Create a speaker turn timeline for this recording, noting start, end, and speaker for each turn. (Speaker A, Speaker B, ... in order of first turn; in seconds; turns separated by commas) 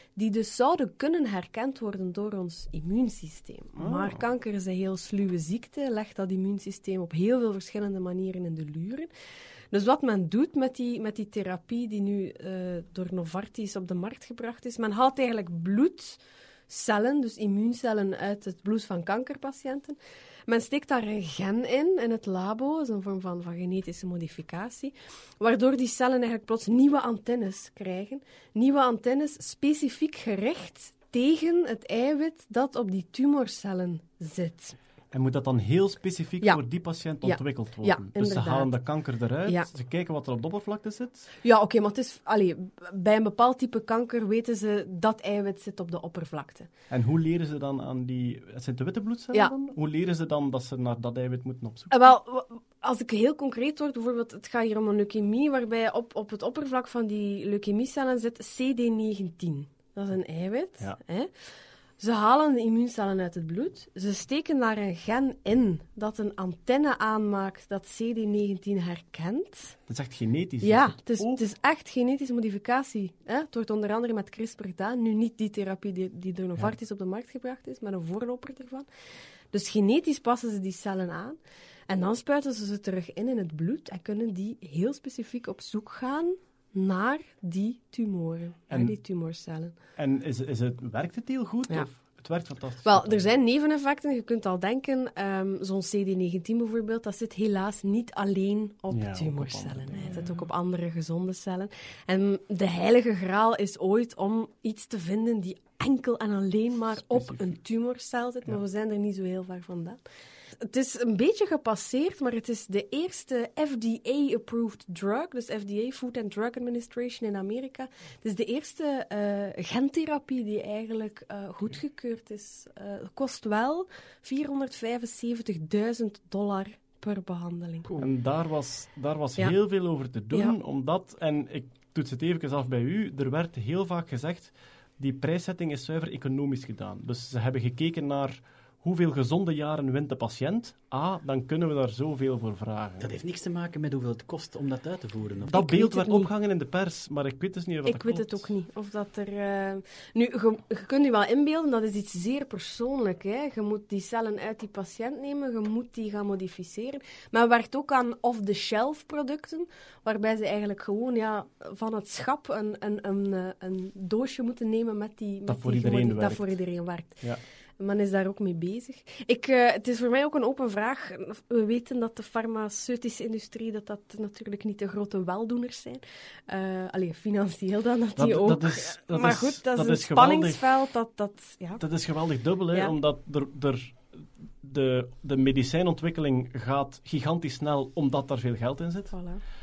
Speaker A: 0.1-9.1, Speaker B: 3.8-4.2, Speaker A: 9.7-34.8, Speaker B: 35.1-41.3, Speaker A: 36.4-39.7, Speaker A: 41.4-46.7, Speaker B: 46.9-51.9, Speaker A: 51.9-61.4, Speaker A: 62.0-69.8, Speaker B: 69.9-71.4, Speaker A: 70.6-78.9, Speaker A: 79.5-81.4, Speaker A: 81.9-89.8, Speaker B: 88.7-89.0, Speaker B: 90.0-93.3, Speaker A: 92.8-110.0, Speaker B: 98.9-100.3, Speaker B: 107.0-107.6, Speaker A: 110.6-128.0, Speaker B: 128.0-143.1, Speaker A: 129.4-130.6, Speaker C: 143.0-145.5, Speaker B: 145.5-148.5, Speaker A: 145.5-146.3, Speaker A: 147.8-182.9, Speaker B: 165.4-167.4, Speaker B: 178.2-180.7, Speaker B: 181.8-189.2, Speaker A: 189.1-189.4